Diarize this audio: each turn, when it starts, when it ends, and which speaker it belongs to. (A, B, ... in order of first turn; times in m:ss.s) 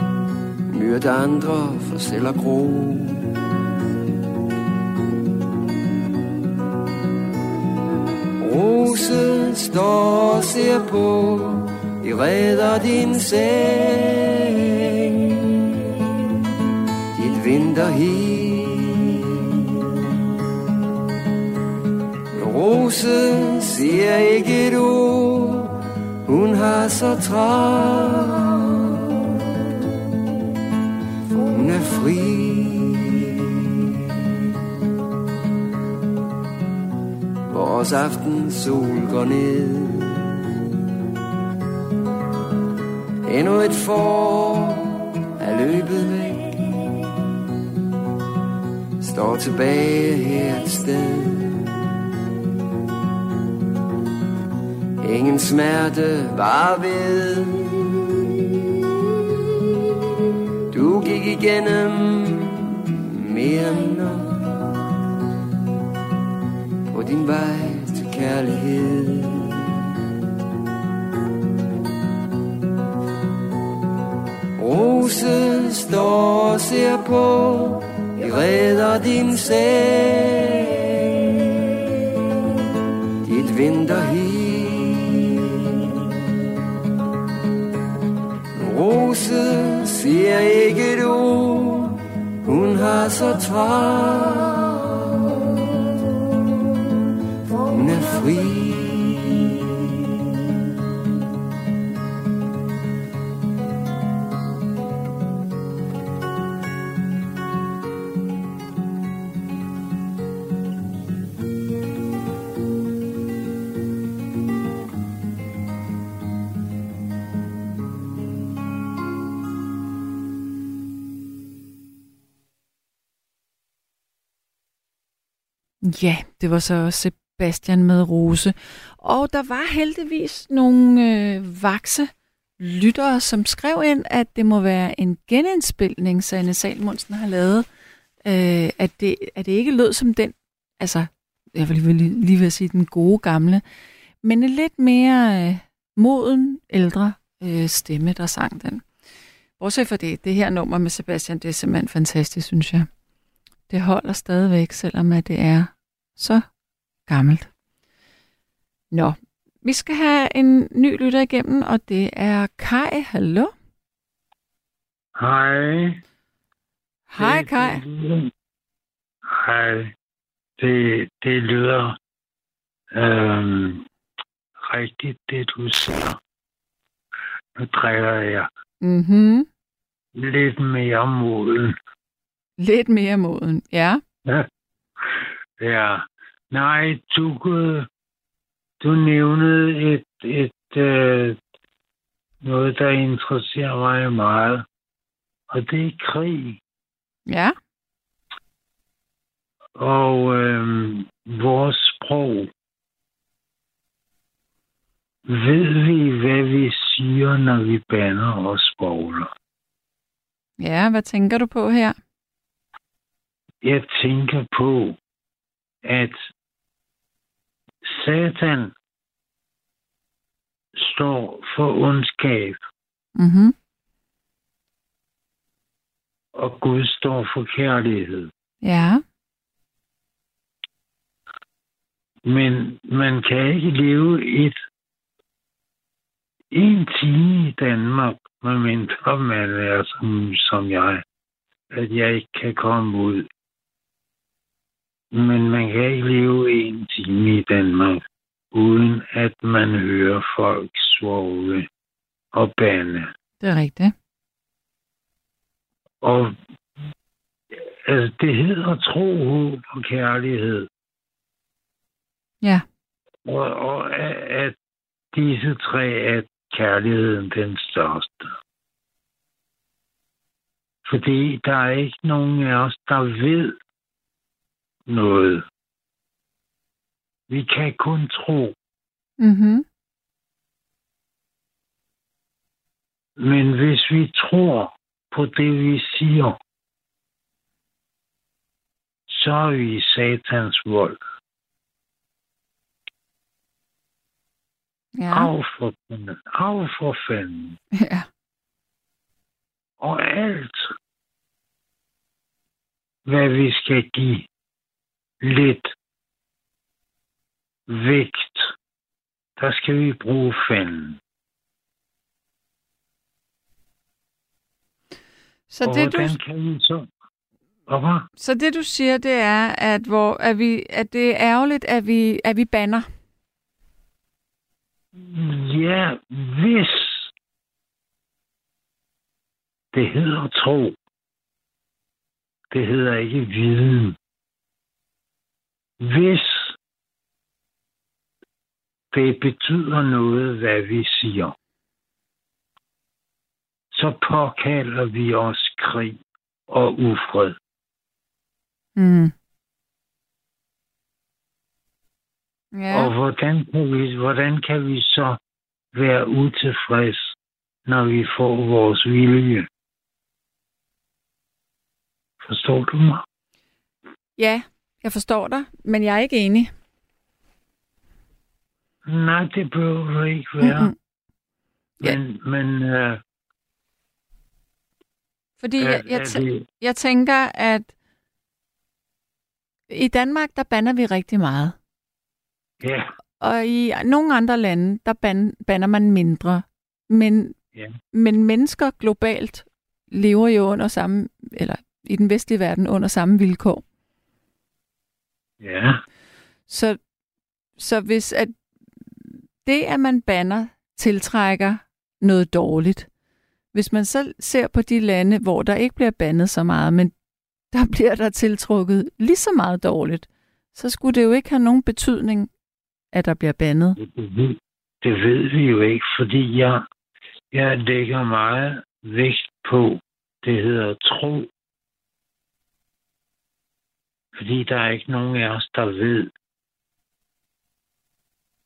0:00.7-0:03.4 A
0:08.4-0:15.3 A
0:17.1-0:19.4 A
0:22.3-0:28.8 A
0:31.4-0:33.4 A
0:37.5-0:40.3 A
0:43.2-0:46.8 A
0:49.0-0:51.7 A
0:55.0-0:58.0 A
1:00.7-1:04.6 A
1:06.9-1:09.6 A
1:14.6-1:21.2 A
1:23.2-1:25.5 A
1:28.5-1:34.8 A
1:37.7-1:39.5 A
2:05.8-2:17.6 B
2:18.2-2:23.6 B
2:24.2-2:28.8 B
2:29.6-2:32.9 B
2:33.7-2:36.4 B
2:37.1-2:37.5 B
2:38.9-2:43.5 B
2:45.2-2:46.0 C
2:47.1-2:47.8 B
2:47.2-2:48.3 C
2:49.3-2:49.9 C
2:50.6-2:52.0 C
2:52.9-2:53.8 C
2:54.6-2:56.2 C
2:57.6-2:58.5 C
2:58.8-2:59.5 B
3:00.1-3:01.8 C
3:02.6-3:04.0 B
3:05.6-3:07.9 C
3:08.8-3:11.4 C
3:12.4-3:14.6 C
3:15.5-3:16.6 C
3:17.3-3:17.5 B
3:19.8-3:22.5 C
3:25.3-3:29.3 C
3:30.6-3:32.0 B
3:33.6-3:35.0 C
3:35.8-3:36.2 C
3:37.8-3:38.7 C
3:40.8-3:42.6 C
3:43.2-3:43.5 B
3:46.4-3:48.3 C
3:48.6-3:49.0 B
3:52.2-3:54.6 C
3:56.5-4:01.0 C
4:01.7-4:03.3 C
4:05.1-4:11.7 C
4:12.3-4:13.1 C
4:13.4-4:13.9 B
4:16.0-4:16.3 C
4:17.9-4:20.7 C
4:23.2-4:24.6 C
4:25.1-4:28.3 C
4:30.8-4:33.6 C
4:34.9-4:35.4 C
4:37.3-4:38.5 C
4:39.2-4:39.6 B
4:43.2-4:46.4 C
4:49.1-4:51.0 C
4:55.0-4:55.3 B
4:55.1-4:57.6 C
4:57.7-4:58.1 B
4:59.8-5:00.7 C
5:03.0-5:04.3 C
5:05.2-5:05.7 C
5:07.7-5:08.5 C
5:09.4-5:11.0 C
5:15.5-5:16.2 B
5:15.6-5:16.9 C
5:17.7-5:18.1 C
5:18.2-5:22.9 B
5:25.0-5:27.1 C
5:29.7-5:30.8 C
5:32.5-5:34.0 C
5:35.8-5:36.6 C
5:38.9-5:41.3 C
5:43.7-5:47.4 C
5:48.8-5:49.1 B
5:52.5-5:52.9 B
5:52.7-5:55.2 C
5:55.7-5:57.1 C
5:57.6-5:59.5 C
6:02.2-6:03.0 C
6:04.2-6:06.5 B
6:08.9-6:10.7 C
6:10.4-6:10.7 B
6:11.8-6:13.0 C
6:15.4-6:17.7 B
6:15.6-6:16.4 C
6:19.7-6:21.5 B
6:22.6-6:22.9 C
6:23.2-6:27.4 B
6:27.9-6:33.6 B
6:35.4-6:35.8 C
6:36.5-6:36.8 B
6:37.6-6:38.3 B
6:39.0-6:42.9 B
6:43.5-6:46.9 B
6:47.5-6:52.3 B
6:52.9-6:53.8 B
6:53.8-6:56.6 C
6:57.3-7:01.3 C
7:04.2-7:06.1 C